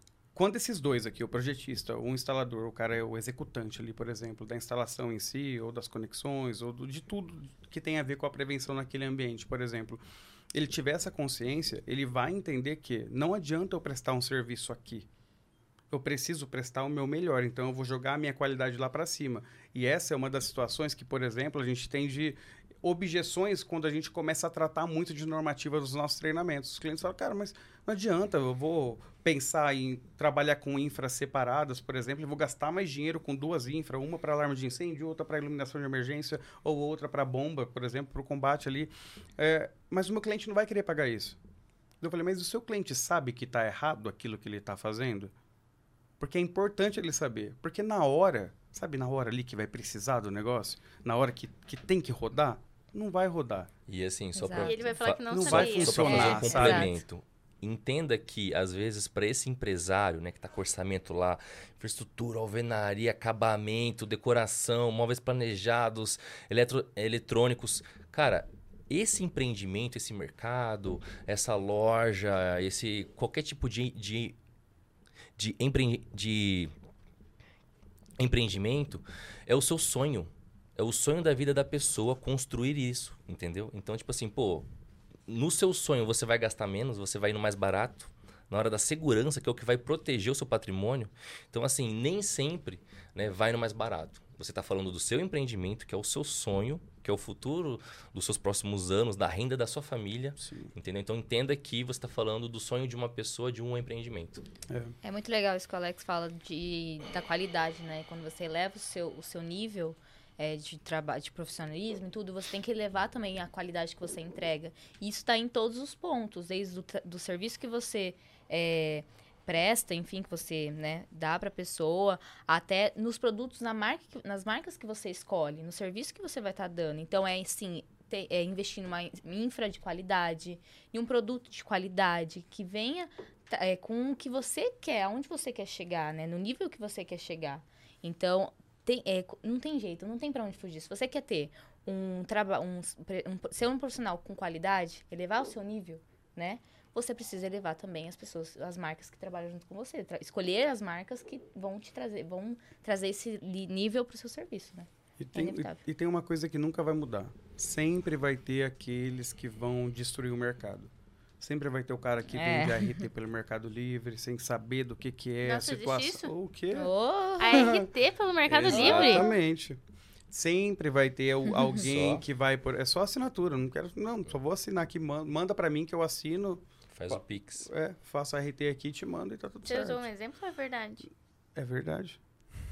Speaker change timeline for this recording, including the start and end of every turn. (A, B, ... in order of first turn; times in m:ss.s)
0:00.3-0:10.0 A
0:10.5-0:15.1 A
0:15.9-0:41.4 A
0:42.0-0:45.3 A
0:46.2-0:53.7 A
0:53.9-1:14.4 B
0:54.4-0:54.7 C
0:54.6-0:56.5 D
0:55.3-0:57.0 A
0:56.0-0:56.9 C
1:15.4-1:16.7 B
1:18.2-1:24.7 B
1:25.3-1:44.4 B
1:40.4-1:40.7 A
1:44.7-1:45.0 A
1:45.0-2:35.8 C
2:35.2-2:46.9 A
2:42.3-2:43.0 C
2:45.4-2:46.3 D
2:46.7-2:47.7 C
2:47.4-2:49.3 D
2:47.5-2:47.9 A
2:48.5-2:49.8 A
2:48.7-2:49.4 C
2:50.3-3:00.1 A
2:51.8-2:52.2 B
2:56.9-2:57.7 B
2:59.6-3:01.1 D
3:01.6-3:02.2 A